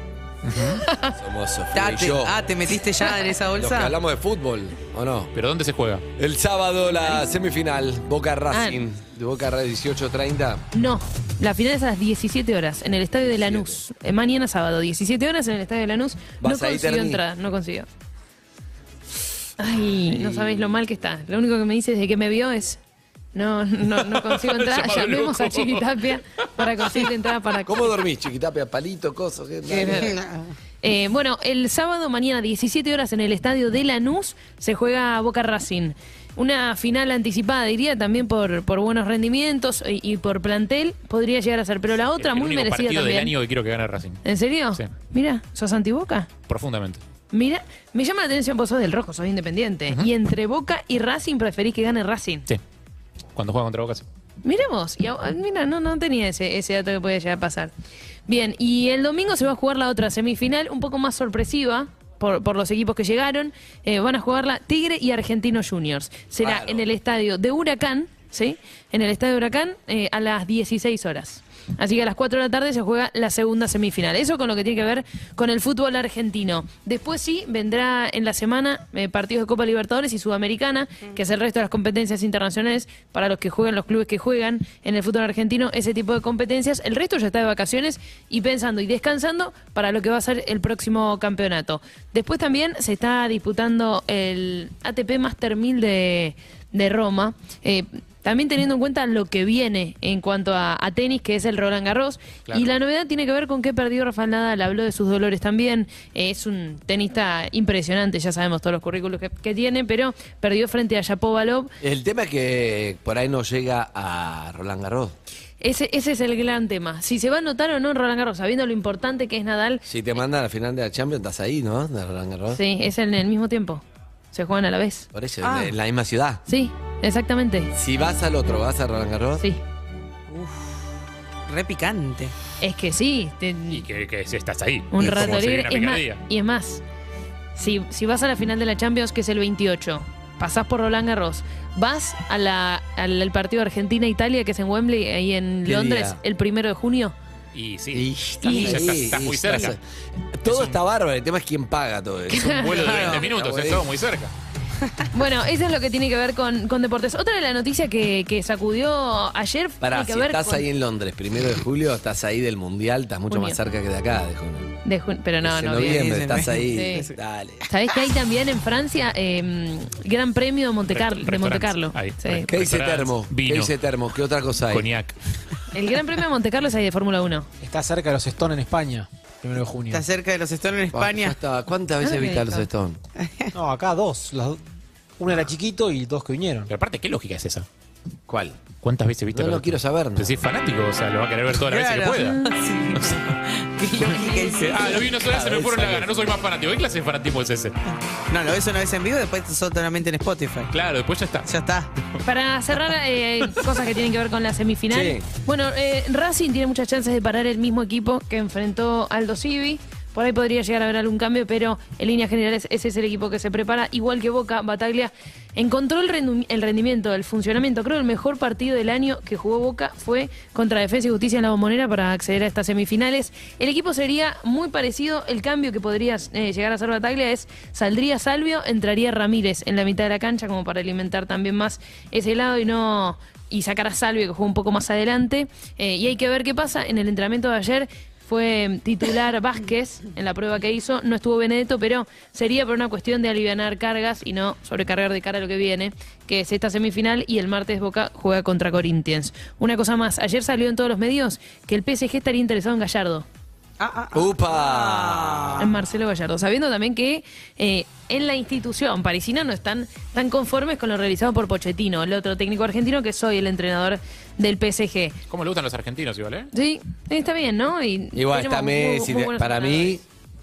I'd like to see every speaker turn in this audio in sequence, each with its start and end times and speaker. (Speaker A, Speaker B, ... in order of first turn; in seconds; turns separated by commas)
Speaker A: 0.4-0.8, Speaker B: 0.6-1.1, Speaker C: 1.1-2.4, Speaker D: 1.7-3.9, Speaker C: 3.5-5.3, Speaker A: 5.3-6.0, Speaker C: 6.2-10.7, Speaker B: 8.5-8.8, Speaker B: 10.7-17.9, Speaker C: 13.2-13.8, Speaker C: 16.4-17.2, Speaker B: 19.6-22.8, Speaker C: 20.1-20.8, Speaker B: 23.3-28.0, Speaker A: 24.0-26.0, Speaker C: 27.7-30.2, Speaker D: 29.7-30.5, Speaker B: 30.8-43.4, Speaker A: 42.2-44.2, Speaker B: 44.2-46.3, Speaker A: 46.5-47.0, Speaker B: 47.3-52.5, Speaker A: 53.4-54.0, Speaker B: 54.4-57.7, Speaker B: 58.3-111.7, Speaker C: 66.4-66.9, Speaker C: 111.8-115.2, Speaker B: 115.6-119.8, Speaker C: 119.8-122.6, Speaker B: 122.5-125.1, Speaker C: 125.1-126.4, Speaker D: 125.4-125.7, Speaker B: 126.5-127.7, Speaker C: 127.8-129.4, Speaker D: 130.3-130.8, Speaker D: 131.5-132.3, Speaker B: 132.6-133.8, Speaker A: 133.7-136.2, Speaker B: 134.9-136.8, Speaker C: 135.0-135.4, Speaker B: 137.6-147.2, Speaker C: 145.7-146.2, Speaker A: 147.5-149.8, Speaker C: 147.9-149.8, Speaker B: 148.4-149.0, Speaker C: 150.4-153.8, Speaker A: 150.5-150.8, Speaker B: 152.3-152.8, Speaker A: 152.4-154.3, Speaker D: 152.8-153.3, Speaker B: 155.1-160.7, Speaker C: 159.8-164.7, Speaker B: 163.3-163.6, Speaker B: 164.8-166.0, Speaker C: 165.4-167.7, Speaker D: 165.8-167.1, Speaker B: 166.7-167.1, Speaker B: 167.7-172.5, Speaker A: 170.9-173.7, Speaker C: 172.5-174.9, Speaker A: 174.7-175.3, Speaker B: 175.7-177.5, Speaker E: 177.6-180.0, Speaker D: 179.9-181.4, Speaker C: 180.9-183.0, Speaker B: 182.0-182.6, Speaker D: 183.2-183.5, Speaker E: 183.5-184.6, Speaker E: 185.2-186.7, Speaker A: 186.7-187.7, Speaker C: 188.3-188.6, Speaker A: 188.8-193.3, Speaker C: 189.3-190.3, Speaker D: 191.5-195.1, Speaker A: 194.7-197.8, Speaker C: 195.2-196.2, Speaker D: 198.3-200.7, Speaker A: 200.7-201.5, Speaker D: 201.4-201.9, Speaker B: 202.2-253.3, Speaker C: 204.9-205.3, Speaker D: 253.8-255.7, Speaker C: 254.1-255.6, Speaker B: 255.6-265.2, Speaker A: 265.3-266.5, Speaker B: 266.5-270.0, Speaker C: 268.1-270.0